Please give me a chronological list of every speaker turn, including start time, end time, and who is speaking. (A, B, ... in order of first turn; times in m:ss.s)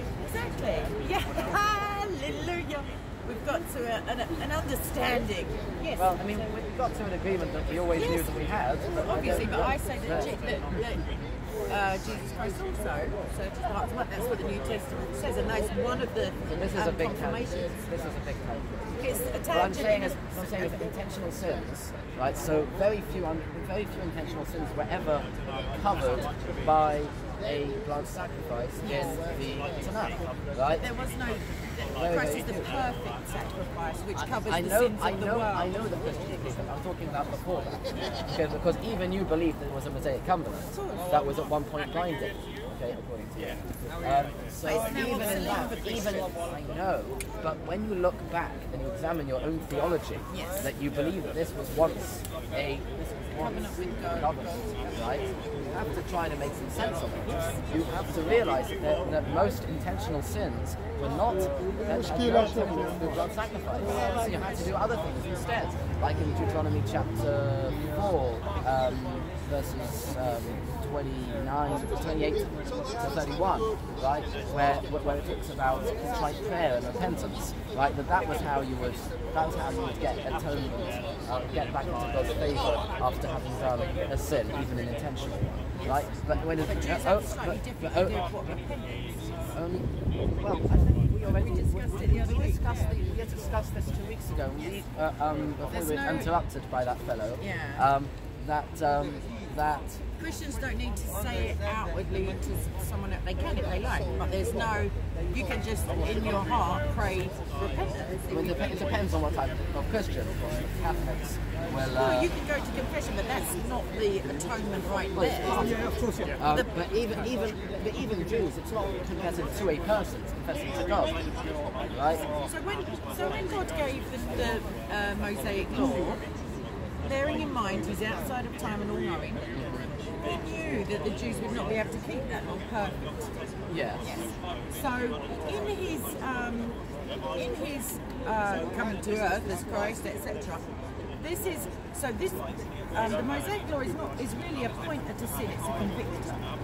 0:00.2-0:06.2 A
0:05.9-0:10.3 B
0:07.9-0:08.3 A
0:08.9-0:11.0 A
0:11.7-0:17.7 A
0:16.5-0:18.9 B
0:19.0-0:20.8 A
0:19.4-0:30.8 B
0:28.8-0:29.2 A
0:30.8-0:35.8 A
0:31.9-0:32.7 B
0:34.2-1:28.2 B
0:40.7-0:41.1 A
0:44.6-0:46.3 A
0:50.3-0:50.7 A
0:53.4-0:54.6 A
0:57.3-0:57.6 A
1:01.8-1:03.2 C
1:03.9-1:04.3 A
1:26.6-1:29.6 A
1:29.5-1:29.9 B
1:30.4-1:40.0 B
1:31.4-1:32.9 A
1:35.7-1:36.3 A
1:37.4-1:37.9 A
1:40.2-1:48.8 A
1:48.3-1:52.3 B
1:51.9-1:55.7 A
1:55.1-1:55.8 B
1:55.5-1:56.4 C
1:56.4-2:01.3 B
2:01.9-2:02.2 B
2:02.4-2:06.2 A
2:07.0-2:13.3 A
2:09.5-2:09.9 B
2:13.7-2:14.2 B
2:14.0-2:16.8 A
2:17.4-2:20.6 A
2:21.2-2:26.4 A